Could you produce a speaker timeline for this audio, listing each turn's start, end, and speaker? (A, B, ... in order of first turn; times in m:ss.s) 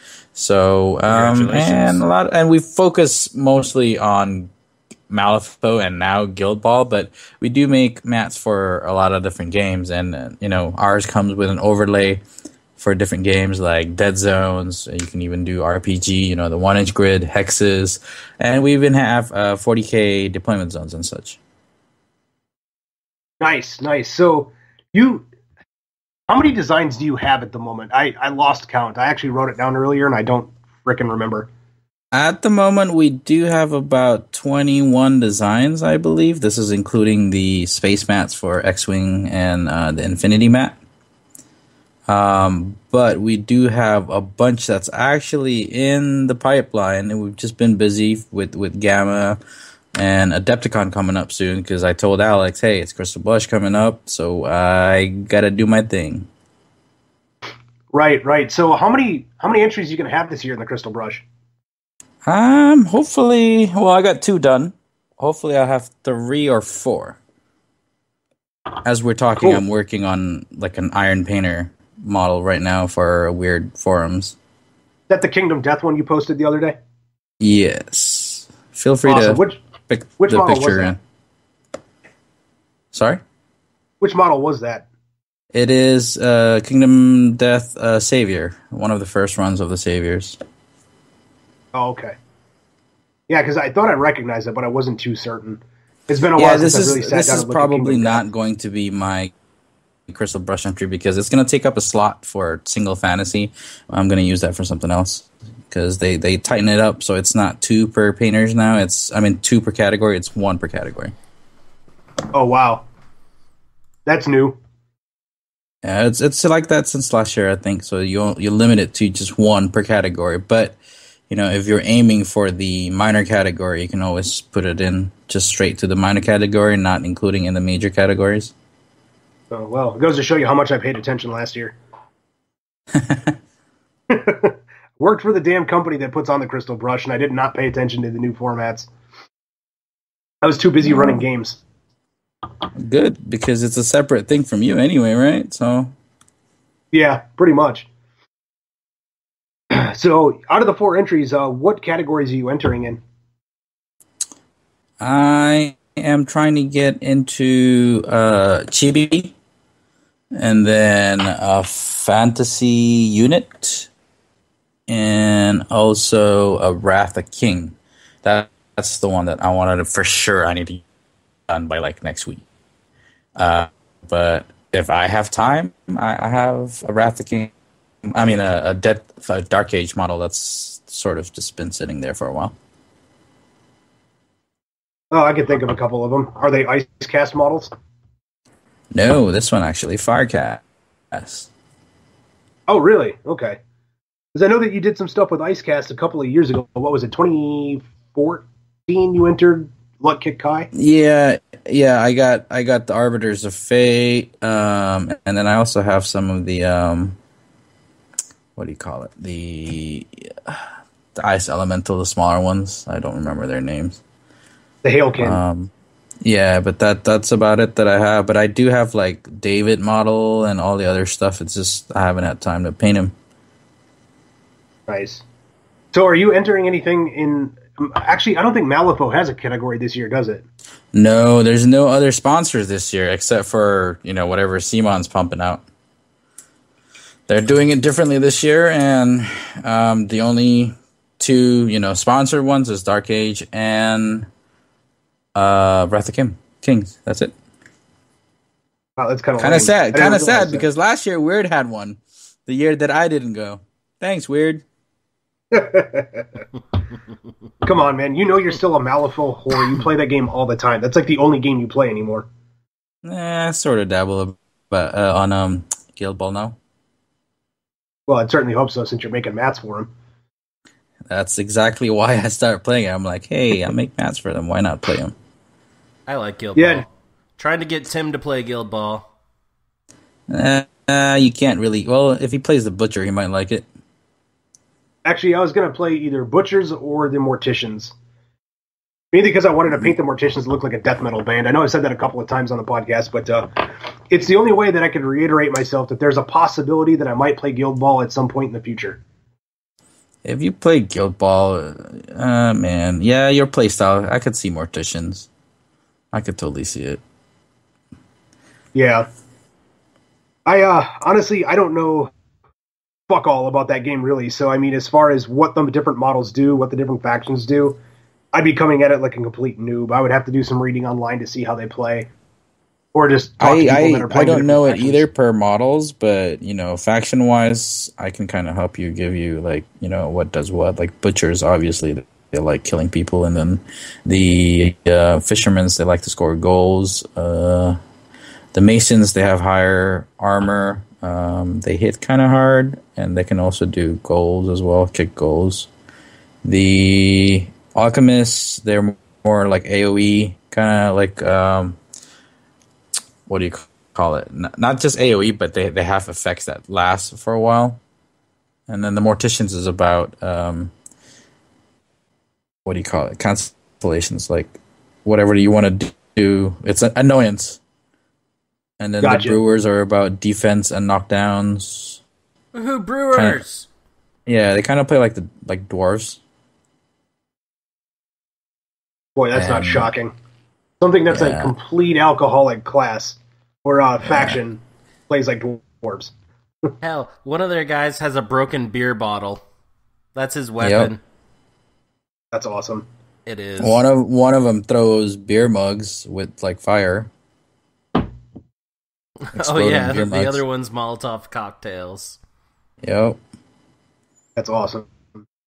0:00.4-0:04.5 A
0:01.1-0:02.0 B
0:05.1-0:12.2 A
0:12.8-0:21.4 A
0:23.4-0:25.3 C
0:26.3-0:31.5 C
0:32.1-0:40.8 A
0:42.1-0:49.4 A
0:50.0-0:56.3 A
0:57.9-1:01.2 C
1:02.2-1:07.2 A
1:08.8-1:14.4 A
1:15.1-1:16.8 C
1:17.4-1:21.0 A
1:19.1-1:19.6 C
1:20.2-1:21.0 C
1:22.9-1:23.2 A
1:24.0-1:24.9 C
1:25.5-1:30.4 A
1:31.7-1:32.2 C
1:33.3-1:38.2 C
1:36.4-1:39.3 A
1:40.1-1:51.2 A
1:52.3-1:52.8 C
1:54.1-1:54.6 C
1:55.8-2:00.8 A
2:01.3-2:08.5 A
2:09.5-2:11.8 C
2:13.0-2:13.4 A
2:14.1-2:18.9 C
2:20.4-2:21.6 C
2:22.8-2:25.9 A
2:26.9-2:27.9 C
2:29.7-2:33.0 C
2:35.0-2:39.4 A
2:40.3-2:43.9 A
2:44.9-2:50.8 A
2:51.5-2:52.4 A
2:53.4-2:57.5 A
2:58.0-3:02.6 A
3:05.1-3:07.7 C
3:08.9-3:11.5 A
3:12.7-3:13.6 C
3:14.3-3:20.7 C
3:20.7-3:27.2 A
3:28.6-3:34.0 A
3:34.8-3:35.4 C
3:35.2-3:35.7 A
3:36.2-3:43.1 A
3:44.9-3:45.2 C
3:45.9-3:50.4 C
3:50.9-3:55.6 A
3:57.3-4:04.3 A
4:05.4-4:07.3 A
4:09.0-4:10.6 C
4:09.4-4:14.6 A
4:15.5-4:16.4 C
4:17.6-4:22.3 C
4:23.0-4:26.6 A
4:28.1-4:29.9 C
4:31.1-4:35.1 A
4:36.1-4:36.9 B
4:36.6-4:36.8 C
4:37.4-4:39.0 B
4:40.3-4:43.7 A
4:45.0-4:47.9 C
4:49.1-4:59.0 C
5:00.2-5:05.3 A
5:06.1-5:07.0 A
5:08.7-5:09.1 C
5:10.5-5:12.1 C
5:13.1-5:17.8 C
5:18.3-5:22.1 C
5:22.9-5:25.1 C
5:23.4-5:37.8 A
5:38.5-5:45.7 A
5:46.4-5:51.8 A
5:53.3-5:57.8 A
5:58.7-6:00.7 A
6:02.6-6:07.6 A
6:08.8-6:12.0 A
6:09.0-6:09.4 C
6:12.5-6:13.7 B
6:13.1-6:13.4 A
6:14.3-6:16.2 A
6:19.2-6:20.1 C
6:19.3-6:19.9 A
6:20.8-6:26.1 C
6:21.1-6:21.6 A
6:24.0-6:24.4 A
6:26.8-6:29.4 B
6:30.2-6:31.0 B
6:30.6-6:30.9 A
6:32.3-6:32.9 C
6:33.3-6:33.8 B
6:33.6-6:37.1 A
6:39.3-6:42.2 B
6:39.4-6:40.4 A
6:42.8-6:43.2 A
6:44.4-6:45.0 C